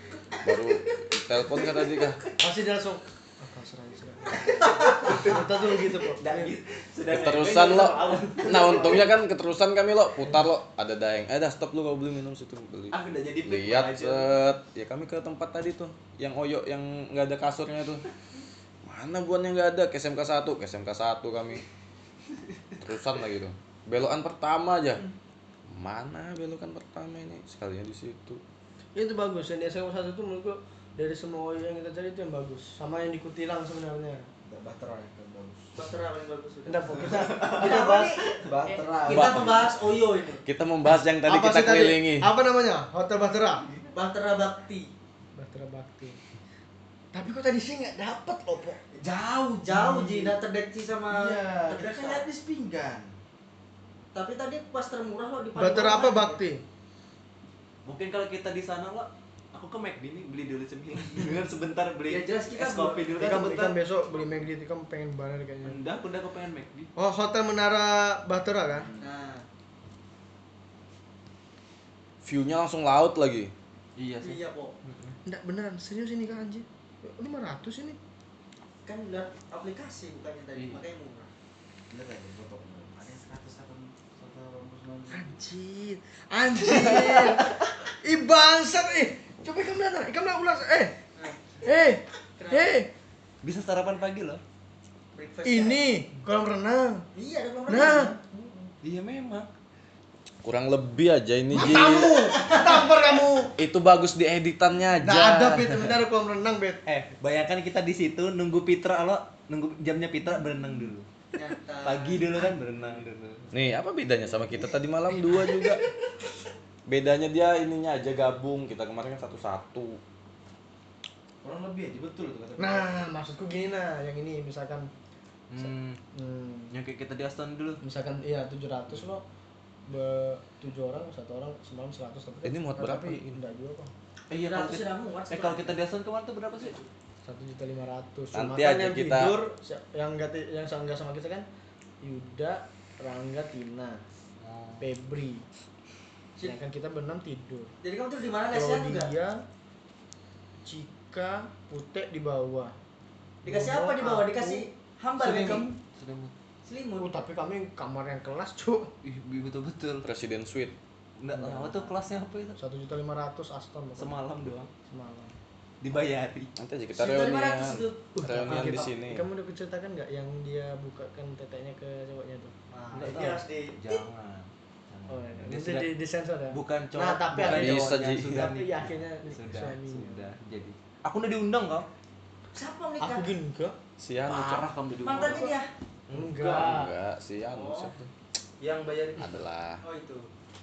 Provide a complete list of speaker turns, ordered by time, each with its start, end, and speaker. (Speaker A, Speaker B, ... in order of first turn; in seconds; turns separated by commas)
Speaker A: 0.4-2.2, Speaker B: 2.4-6.5, Speaker C: 4.3-9.1, Speaker A: 7.1-18.0, Speaker C: 12.9-14.3, Speaker A: 18.8-21.6, Speaker A: 22.8-25.1, Speaker A: 25.7-28.4, Speaker B: 28.9-34.3, Speaker D: 34.4-35.8, Speaker E: 35.8-40.4, Speaker B: 36.6-37.7, Speaker C: 37.0-38.4, Speaker D: 37.5-39.6, Speaker A: 39.1-39.7, Speaker A: 40.4-42.3, Speaker B: 41.2-43.7, Speaker E: 43.9-44.9, Speaker B: 45.3-46.2, Speaker B: 47.1-48.8, Speaker D: 48.9-50.4, Speaker E: 49.6-52.3, Speaker D: 51.1-53.1, Speaker E: 54.1-56.4, Speaker B: 55.5-56.6, Speaker C: 57.8-64.3, Speaker E: 62.1-63.1, Speaker B: 63.2-65.8, Speaker C: 65.6-66.9, Speaker B: 67.0-68.9, Speaker E: 69.0-69.5, Speaker A: 72.2-73.5, Speaker C: 74.0-75.1, Speaker E: 74.2-74.7, Speaker B: 75.2-78.0, Speaker E: 78.8-81.3, Speaker C: 80.5-80.8, Speaker D: 81.9-85.2, Speaker B: 85.1-90.9, Speaker C: 86.6-87.3, Speaker E: 91.2-91.5, Speaker B: 91.6-92.9, Speaker E: 92.4-92.7, Speaker C: 93.4-94.4, Speaker E: 95.1-95.8, Speaker B: 95.4-97.0, Speaker E: 97.1-98.7, Speaker B: 97.7-98.1, Speaker C: 98.8-99.5, Speaker A: 100.4-102.2, Speaker B: 101.5-103.5, Speaker E: 102.2-102.9, Speaker A: 103.5-106.0, Speaker B: 105.0-106.8, Speaker C: 106.8-111.1, Speaker E: 111.3-112.2, Speaker C: 111.8-113.5, Speaker A: 113.5-115.8, Speaker A: 116.9-120.0, Speaker D: 121.4-122.9, Speaker B: 122.6-124.9, Speaker C: 125.5-126.0, Speaker B: 125.6-126.7, Speaker C: 126.7-127.8, Speaker B: 127.8-129.2, Speaker B: 129.9-133.9, Speaker A: 132.4-133.4, Speaker C: 134.3-136.8, Speaker E: 134.3-135.8, Speaker E: 136.5-136.8, Speaker B: 137.2-141.4, Speaker A: 138.3-139.4, Speaker B: 142.0-144.0, Speaker C: 144.4-144.8, Speaker B: 144.8-145.4, Speaker B: 146.4-147.7, Speaker E: 147.8-149.1, Speaker B: 148.5-149.4, Speaker B: 150.6-152.7, Speaker B: 153.4-154.7, Speaker E: 153.4-155.7, Speaker C: 155.2-156.3, Speaker E: 156.6-157.2, Speaker B: 157.0-158.9, Speaker C: 159.0-160.1, Speaker A: 160.0-160.8, Speaker C: 161.2-162.6, Speaker B: 161.3-161.9, Speaker B: 162.6-164.2, Speaker C: 164.0-164.7, Speaker B: 164.9-165.4, Speaker C: 165.8-166.5, Speaker A: 166.6-169.2, Speaker E: 166.9-168.9, Speaker B: 168.2-172.5, Speaker E: 172.7-174.0, Speaker C: 172.9-175.9, Speaker B: 175.1-180.3, Speaker C: 176.5-181.9, Speaker A: 177.4-178.5, Speaker E: 182.5-183.3, Speaker B: 183.0-183.8, Speaker A: 184.0-184.7, Speaker C: 184.3-185.5, Speaker E: 185.0-185.7, Speaker B: 185.2-185.5, Speaker C: 186.1-186.7, Speaker B: 186.1-186.9, Speaker A: 186.4-188.1, Speaker E: 187.5-187.9, Speaker C: 188.6-189.3, Speaker A: 189.2-189.8, Speaker E: 189.8-190.3